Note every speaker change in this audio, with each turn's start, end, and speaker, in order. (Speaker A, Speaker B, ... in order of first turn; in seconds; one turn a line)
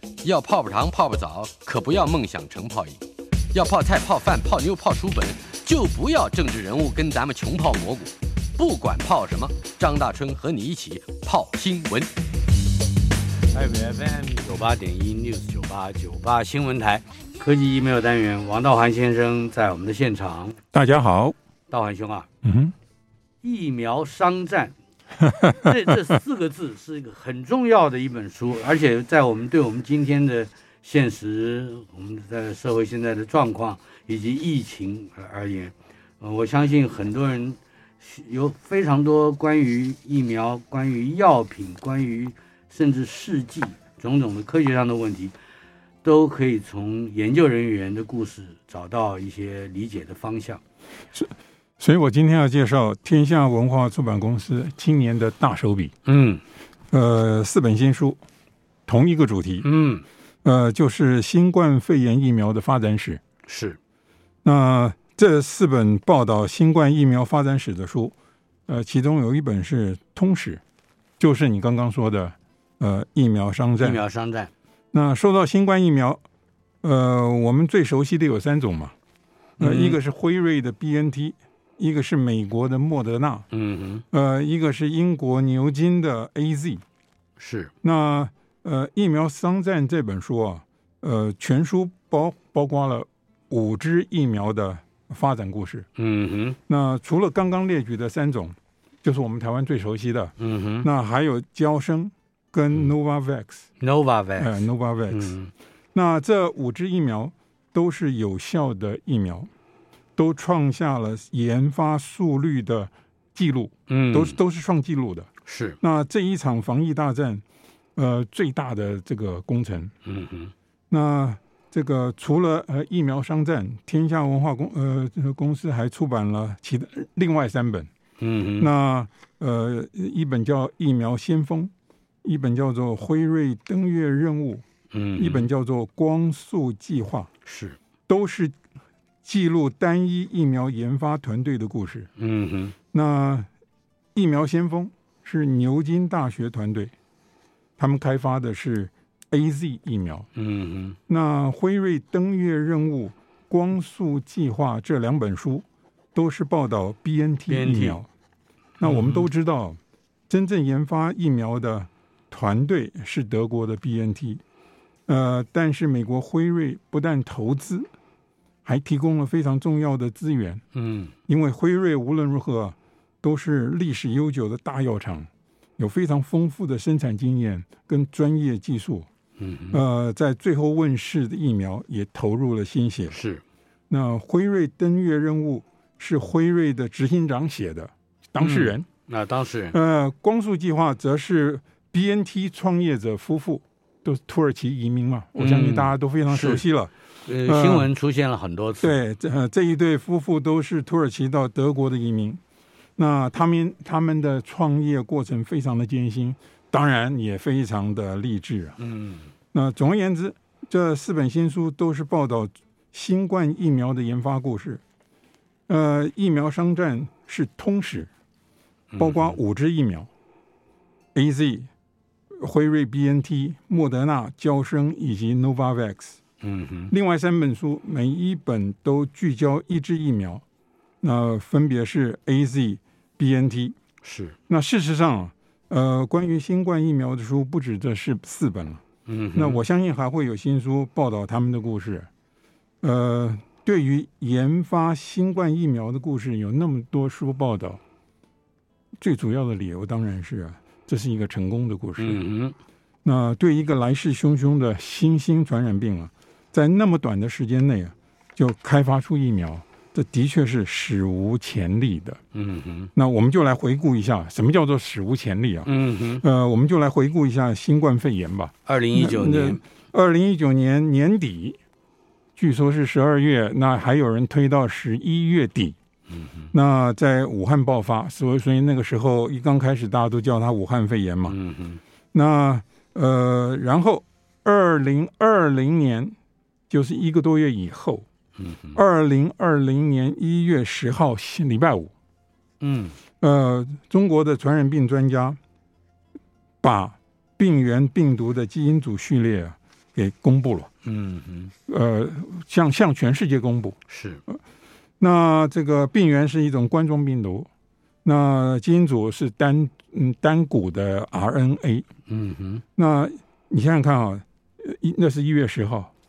Speaker A: 0.2-3.0
Speaker A: 3.5-12.1
Speaker B: 13.5-20.6
Speaker C: 20.7-21.4
Speaker B: 21.7-22.3
Speaker C: 22.4-22.7
Speaker B: 23.4-24.8
Speaker C: 25.2-25.9
Speaker B: 25.4-45.3
Speaker B: 46.0-50.6
Speaker C: 51.1-56.0
Speaker B: 56.1-56.4
Speaker C: 56.9-58.2
Speaker C: 58.9-59.7
Speaker B: 59.6-60.1
Speaker C: 60.4-63.2
Speaker B: 63.5-63.8
Speaker C: 64.4-68.2
Speaker C: 68.7-70.6
Speaker C: 71.2-74.0
Speaker B: 73.8-74.5
Speaker C: 74.9-76.2
Speaker C: 76.8-78.9
Speaker B: 79.6-80.0
Speaker C: 79.6-83.5
Speaker B: 83.5-84.0
Speaker C: 84.1-86.8
Speaker B: 87.4-87.7
Speaker C: 87.8-95.9
Speaker B: 96.0-96.6
Speaker C: 96.7-103.7
Speaker B: 100.4-100.9
Speaker B: 103.8-104.6
Speaker C: 104.4-105.3
Speaker B: 105.1-105.5
Speaker C: 105.9-109.5
Speaker C: 110.2-115.3
Speaker B: 113.9-114.4
Speaker B: 115.5-115.8
Speaker C: 115.8-117.4
Speaker C: 118.0-119.9
Speaker B: 120.0-120.5
Speaker C: 120.9-127.9
Speaker B: 128.2-128.7
Speaker C: 128.6-131.7
Speaker C: 132.2-134.6
Speaker B: 134.9-135.5
Speaker C: 135.2-137.3
Speaker B: 137.5-137.8
Speaker C: 138.1-138.6
Speaker C: 139.2-142.1
Speaker B: 142.2-142.8
Speaker C: 142.9-143.5
Speaker C: 144.2-146.9
Speaker C: 147.8-150.3
Speaker B: 150.4-151.0
Speaker C: 151.1-158.1
Speaker B: 157.5-158.0
Speaker C: 158.8-164.4
Speaker B: 158.8-159.3
Speaker C: 165.1-167.9
Speaker C: 168.7-170.6
Speaker B: 170.7-171.1
Speaker C: 171.3-179.1
Speaker B: 179.4-179.8
Speaker C: 179.7-183.2
Speaker B: 183.1-183.4
Speaker C: 183.9-188.9
Speaker B: 188.4-189.8
Speaker C: 189.7-196.9
Speaker B: 195.4-196.6
Speaker B: 197.3-198.9
Speaker C: 197.4-197.9
Speaker C: 198.8-202.4
Speaker C: 203.0-208.8
Speaker B: 208.8-209.3
Speaker C: 209.5-214.8
Speaker C: 215.7-218.1
Speaker B: 218.9-219.4
Speaker C: 219.0-220.1
Speaker C: 221.2-221.7
Speaker C: 222.4-226.2
Speaker B: 226.4-226.9
Speaker C: 226.9-230.4
Speaker C: 231.0-233.8
Speaker B: 234.0-234.4
Speaker C: 234.5-238.8
Speaker B: 239.1-239.6
Speaker C: 239.4-242.1
Speaker C: 242.8-247.8
Speaker C: 249.0-252.2
Speaker B: 252.0-252.6
Speaker C: 253.0-262.2
Speaker B: 262.3-262.9
Speaker C: 262.9-271.6
Speaker B: 265.7-266.2
Speaker B: 268.7-269.6
Speaker C: 272.4-275.8
Speaker B: 276.1-276.5
Speaker C: 276.5-281.4
Speaker B: 281.3-281.8
Speaker C: 282.1-286.2
Speaker C: 286.7-288.1
Speaker B: 288.4-288.8
Speaker C: 288.8-291.9
Speaker B: 292.6-293.0
Speaker C: 293.2-295.4
Speaker C: 296.6-300.7
Speaker B: 300.8-301.5
Speaker C: 301.7-303.8
Speaker B: 303.9-304.2
Speaker C: 305.0-307.5
Speaker C: 308.1-311.9
Speaker B: 312.1-312.6
Speaker C: 312.8-315.9